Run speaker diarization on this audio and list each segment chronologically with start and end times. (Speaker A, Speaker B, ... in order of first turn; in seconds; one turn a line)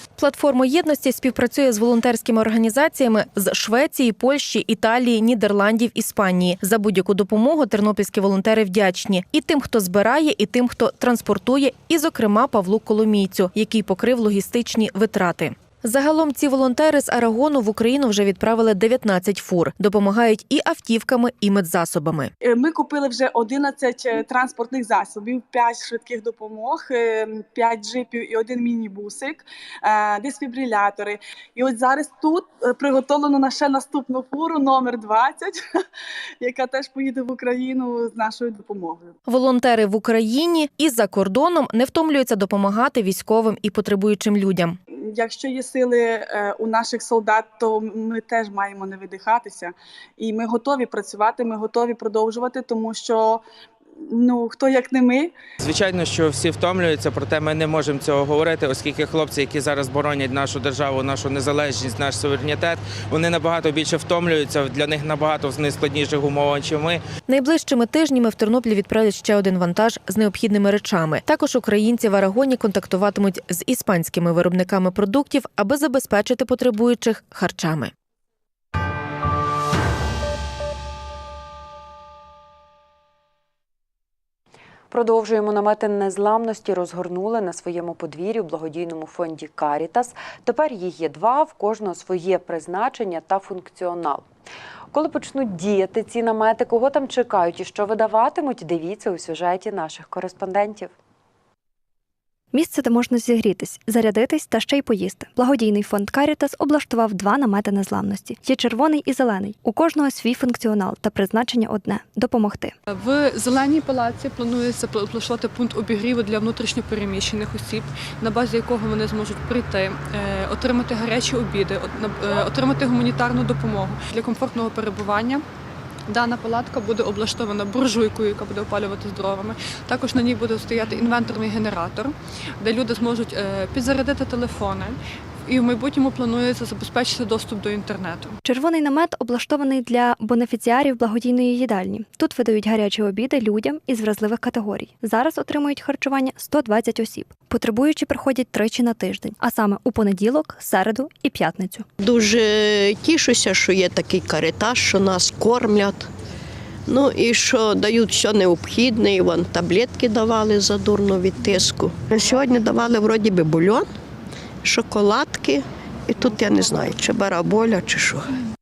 Speaker A: 0.2-22.3
Speaker B: 22.4-35.6
Speaker B: 36.4-39.1
Speaker A: 39.2-44.8
Speaker B: 45.1-53.4
Speaker B: 54.0-55.3
Speaker C: 55.6-67.0
Speaker A: 67.3-77.9
Speaker D: 84.9-94.3
Speaker D: 94.9-100.9
Speaker E: 102.5-112.8
Speaker F: 112.9-125.4
Speaker F: 126.1-138.4
Speaker E: 138.4-151.8
Speaker G: 152.0-156.1
Speaker G: 156.9-163.9
Speaker G: 164.6-168.3